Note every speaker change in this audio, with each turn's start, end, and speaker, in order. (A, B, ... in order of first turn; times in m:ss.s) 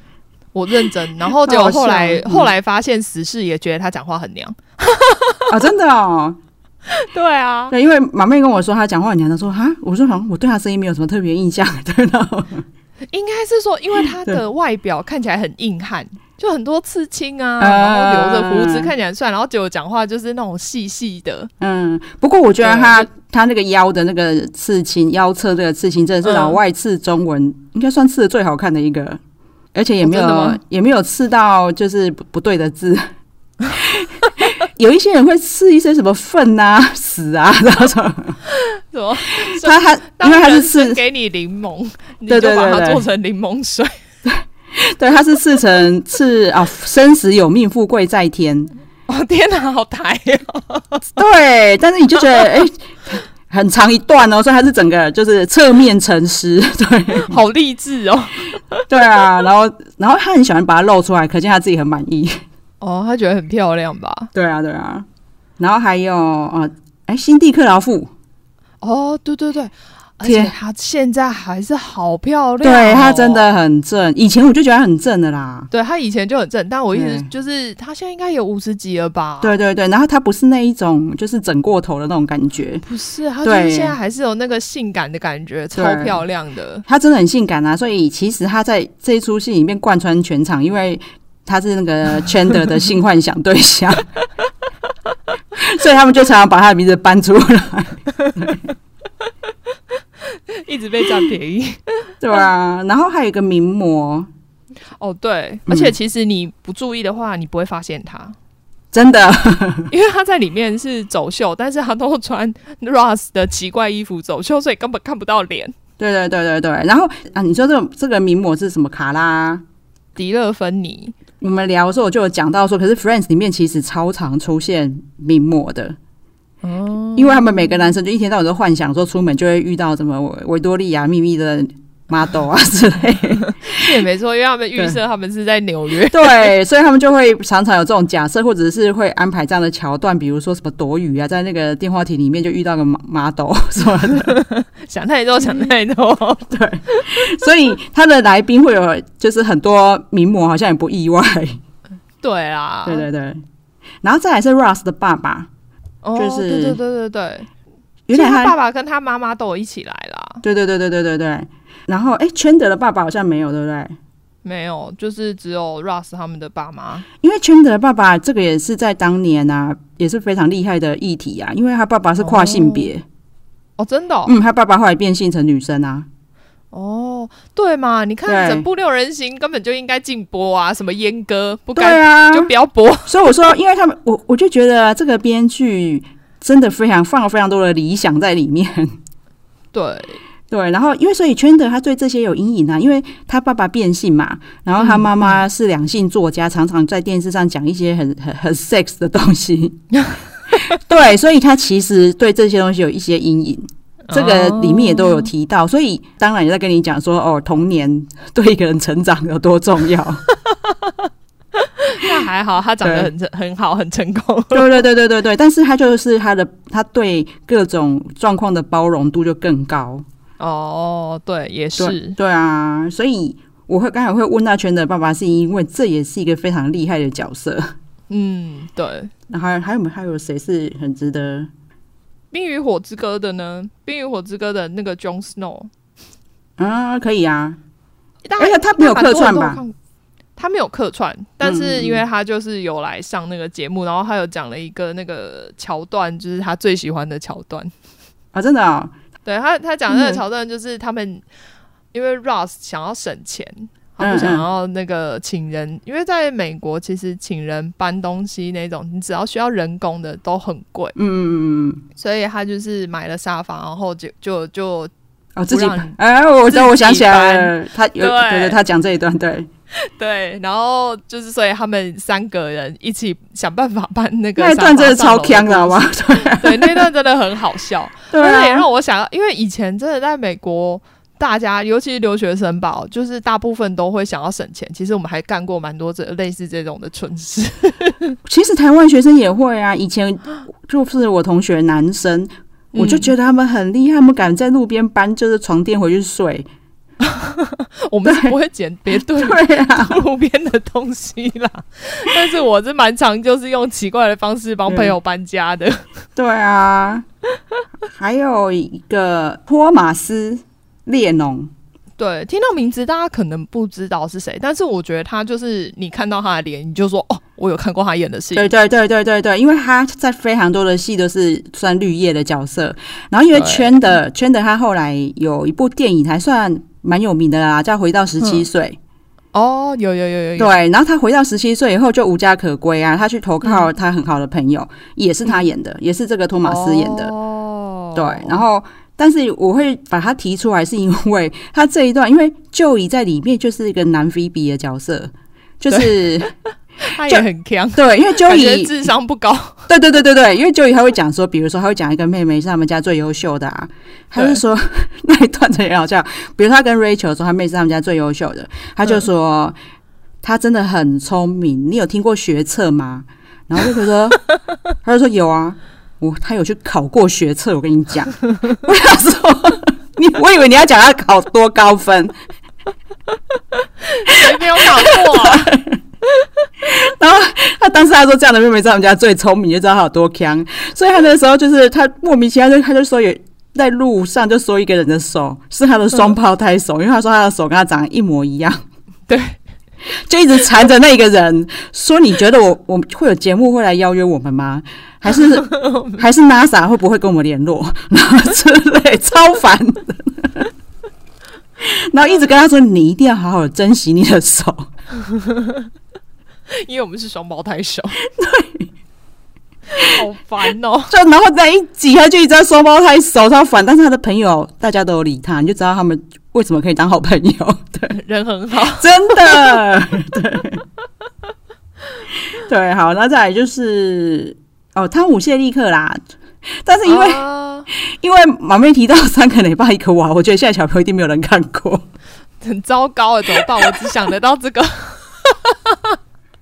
0:00.5-0:05.5 A
0:01.4-0:02.5 B
0:05.5-0:06.4 B
0:06.9-0:07.7 A
0:07.7-0:12.6 B
0:13.1-0:21.5 A
0:17.6-0:18.9 B
0:21.6-0:29.2 B
0:22.6-0:23.1 A
0:26.2-0:26.6 A
0:29.7-0:33.0 B
0:30.0-0:30.6 A
0:33.7-0:38.4 B
0:38.6-0:43.9 A
0:39.4-0:41.0 B
0:42.3-0:43.0 B
0:44.2-0:48.7 B
0:49.1-0:51.1 A
0:51.2-0:57.4 B
0:57.2-0:58.9 A
0:58.9-1:02.4 B
1:02.8-1:04.3 A
1:04.3-1:05.1 B
1:05.6-1:08.1 B
1:08.8-1:13.5 A
1:10.2-1:10.5 B
1:12.6-1:15.7 B
1:15.7-1:19.5 A
1:16.9-1:17.3 B
1:19.4-1:22.8 B
1:22.8-1:26.8 A
1:23.4-1:24.0 B
1:25.8-1:26.2 B
1:26.9-1:34.0 B
1:35.6-1:38.7 B
1:40.5-1:42.1 A
1:42.2-1:44.3 B
1:45.0-1:48.4 A
1:45.7-1:45.9 B
1:48.9-1:49.9 B
1:49.9-1:55.7 A
1:56.0-1:59.6 B
2:00.2-2:01.2 A
2:01.4-2:06.0 B
2:06.6-2:07.8 A
2:07.2-2:13.8 B
2:13.5-2:16.5 A
2:16.1-2:24.4 B
2:24.2-2:27.3 A
2:26.5-2:31.6 B
2:32.2-2:33.1 A
2:32.9-2:33.4 B
2:34.0-2:35.5 B
2:36.0-2:37.5 A
2:36.2-2:36.8 B
2:38.1-2:38.6 B
2:38.1-2:40.4 A
2:40.4-2:44.0 B
2:44.4-2:47.1 A
2:47.2-2:53.0 B
2:52.2-2:52.9 A
2:53.8-2:54.4 A
2:54.3-2:56.1 B
2:56.7-3:03.4 A
2:58.3-2:58.6 B
3:01.8-3:02.5 B
3:03.1-3:08.9 B
3:09.7-3:10.2 A
3:10.5-3:19.8 B
3:14.8-3:15.4 A
3:20.6-3:30.2 B
3:24.1-3:25.3 A
3:30.5-3:31.0 A
3:31.6-3:34.8 A
3:32.8-3:33.1 B
3:34.5-3:40.0 B
3:40.4-3:42.2 A
3:41.8-3:47.7 B
3:48.1-3:49.1 A
3:49.3-3:51.5 B
3:52.3-3:55.7 A
3:56.6-3:57.6 B
3:58.3-3:59.8 A
3:58.4-3:59.6 B
4:00.4-4:07.7 A
4:01.4-4:02.0 B
4:08.3-4:08.9 B
4:09.2-4:11.2 A
4:09.9-4:10.2 B
4:11.9-4:21.0 A
4:14.0-4:14.4 B
4:21.0-4:21.8 B
4:22.0-4:24.9 A
4:25.4-4:29.5 B
4:25.5-4:26.0 A
4:26.5-4:28.6 A
4:29.8-4:48.2 A
4:34.4-4:36.8 B
4:38.1-4:38.7 B
4:48.3-4:56.5 B
4:52.7-4:53.1 A
4:57.0-5:05.8 A
4:58.0-4:58.3 B
4:59.0-5:00.0 B
5:04.7-5:04.9 B
5:06.2-5:07.0 B
5:07.9-5:11.5 B
5:12.0-5:18.5 A
5:18.4-5:28.8 B
5:23.3-5:24.0 A
5:29.3-5:30.6 A
5:30.4-5:37.1 B
5:36.4-5:38.4 A
5:38.0-5:46.3 B
5:45.7-5:46.2 A
5:46.8-5:49.6 A
5:47.0-5:48.7 B
5:49.7-5:59.6 B
6:00.2-6:04.2 B
6:04.8-6:12.1 B
6:13.9-6:15.6 A
6:14.1-6:15.8 B
6:16.6-6:28.6 B
6:29.1-6:29.4 A
6:30.1-6:40.5 B
6:35.5-6:36.0 A
6:41.6-6:44.7 B
6:45.0-6:45.7 A
6:46.5-6:48.0 A
6:48.2-6:48.7 B
6:49.7-6:50.9 A
6:50.9-6:58.0 B
6:57.9-6:59.6 A
6:58.8-7:00.6 B
7:02.3-7:06.0 B
7:06.6-7:11.8 B
7:06.8-7:07.7 A
7:12.4-7:16.0 A